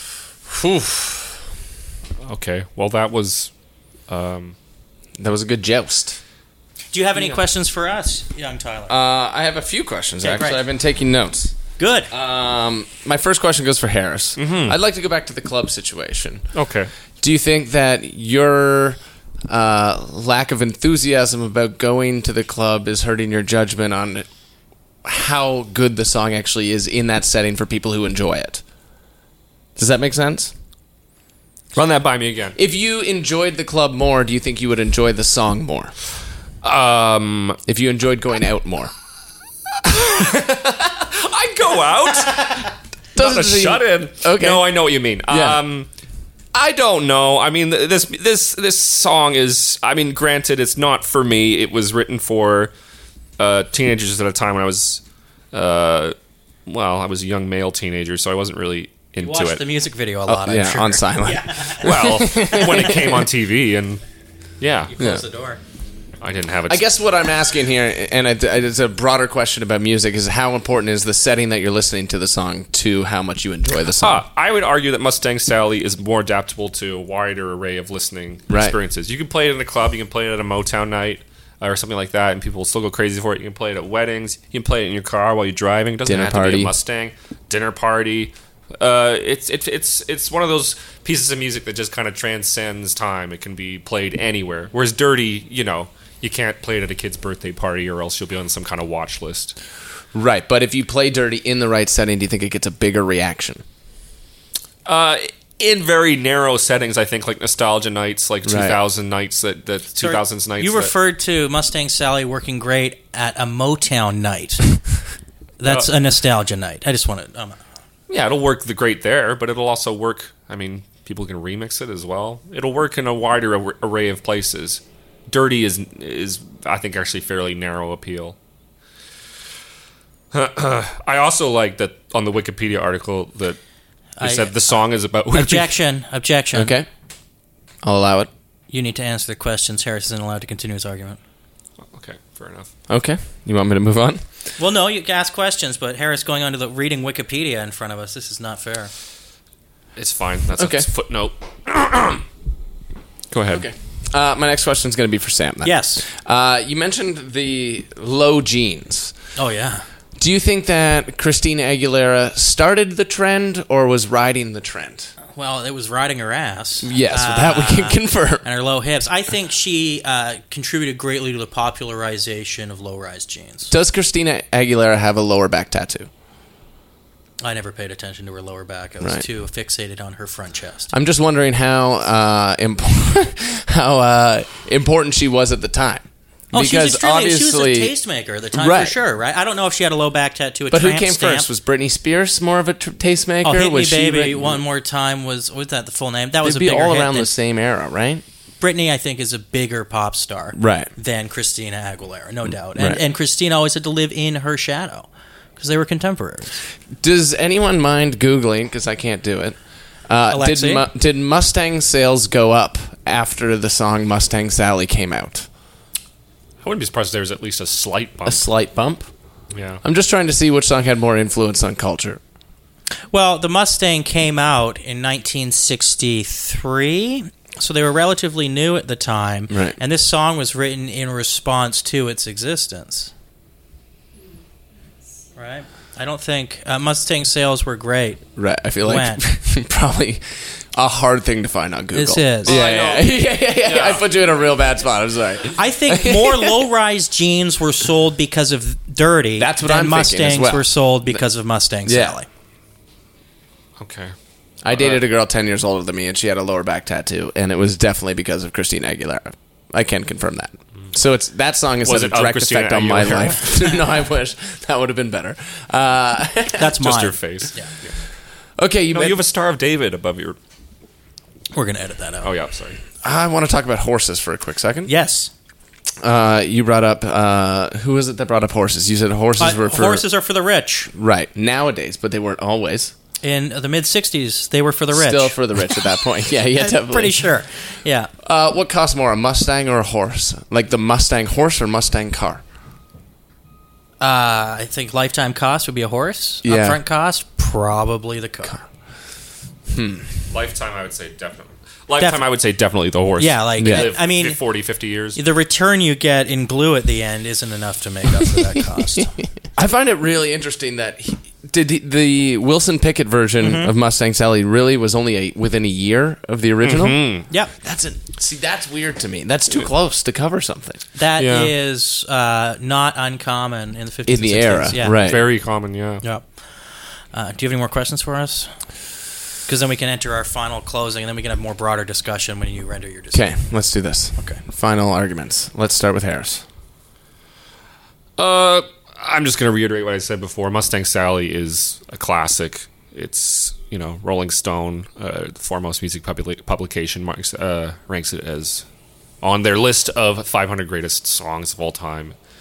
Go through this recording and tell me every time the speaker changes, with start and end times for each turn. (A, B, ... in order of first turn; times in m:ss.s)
0:00.5-0:01.4 A
0:02.2-0:03.5 B
0:04.1-0:04.6 B
0:05.2-0:06.2 A
0:06.9-0:09.0 C
0:08.9-0:11.6 A
0:10.2-0:10.6 C
0:11.8-0:12.1 C
0:12.1-0:16.5 A
0:14.4-0:14.8 B
0:16.5-0:16.9 B
0:17.2-0:24.3 A
0:25.0-0:28.6 A
0:29.8-0:30.5 A
0:31.7-0:32.6 B
0:32.6-0:35.9 A
0:36.6-0:37.6 B
0:37.7-0:38.9 A
0:39.8-0:45.9 B
0:43.2-0:45.6 A
0:46.5-0:52.7 B
0:53.4-0:59.6 B
0:59.2-1:03.0 C
1:00.3-1:03.2 A
1:01.7-1:04.0 B
1:04.6-1:04.9 B
1:04.9-1:05.6 C
1:06.2-1:06.9 B
1:06.7-1:14.2 A
1:14.0-1:39.6 B
1:18.5-1:18.8 A
1:26.0-1:26.7 A
1:40.1-1:43.6 A
1:44.9-1:50.9 B
1:48.4-1:48.8 A
1:50.0-1:54.8 C
1:55.6-1:57.6 C
1:58.1-2:08.4 B
2:10.3-2:13.6 B
2:14.2-2:16.8 C
2:14.2-2:15.8 B
2:16.6-2:16.9 A
2:17.8-2:18.3 A
2:18.7-2:21.2 C
2:21.9-2:22.7 B
2:22.9-2:24.2 A
2:24.6-2:28.9 C
2:30.0-2:32.2 B
2:30.6-2:30.9 A
2:33.3-2:33.7 B
2:33.5-2:39.2 A
2:35.6-2:36.0 C
2:39.4-2:39.9 C
2:40.2-2:45.1 A
2:45.3-2:53.7 C
2:46.8-2:48.4 A
2:53.7-2:56.1 A
2:57.4-3:00.9 C
3:00.9-3:07.9 A
3:06.5-3:11.5 C
3:08.6-3:09.0 A
3:10.7-3:14.6 A
3:13.4-3:17.3 C
3:16.4-3:18.2 A
3:18.6-3:26.6 C
3:20.6-3:20.9 A
3:27.0-3:35.5 A
3:30.3-3:30.8 C
3:36.6-3:38.5 B
3:38.3-3:39.1 A
3:39.5-3:39.8 B
3:39.8-3:42.2 A
3:43.1-3:53.1 C
3:49.5-3:49.8 A
3:55.4-3:58.3 C
3:58.4-4:06.6 A
3:58.8-3:59.2 C
4:01.9-4:02.5 C
4:02.4-4:04.0 B
4:05.6-4:12.3 C
4:09.4-4:11.2 A
4:11.9-4:12.2 A
4:13.8-4:14.1 B
4:14.6-4:26.8 A
4:14.7-4:15.0 B
4:21.8-4:23.5 B
4:26.6-4:27.7 C
4:26.8-4:28.0 B
4:28.6-4:29.2 A
4:28.9-4:30.4 B
4:31.5-4:32.3 C
4:32.2-4:32.8 B
4:33.0-4:34.9 A
4:34.9-4:35.3 C
4:36.0-4:40.0 A
4:39.4-4:40.9 C
4:40.9-4:42.9 A
4:43.2-4:48.1 C
4:44.9-4:47.5 A
4:48.2-4:52.4 A
4:54.0-4:58.6 C
4:56.4-4:56.8 A
4:59.7-5:00.3 A
5:00.3-5:05.2 B
5:02.0-5:02.2 C
5:03.2-5:04.4 C
5:03.6-5:03.9 A
5:05.2-5:09.2 C
5:09.6-5:20.8 A
5:13.4-5:13.7 C
5:16.6-5:17.3 B
5:21.0-5:25.4 C
5:21.2-5:21.5 B
5:24.1-5:25.2 A
5:24.9-5:26.0 B
5:26.0-5:28.9 C
5:29.4-5:33.5 C
5:33.1-5:36.4 A
5:34.2-5:34.4 C
5:38.2-5:48.6 B
5:49.2-5:52.2 B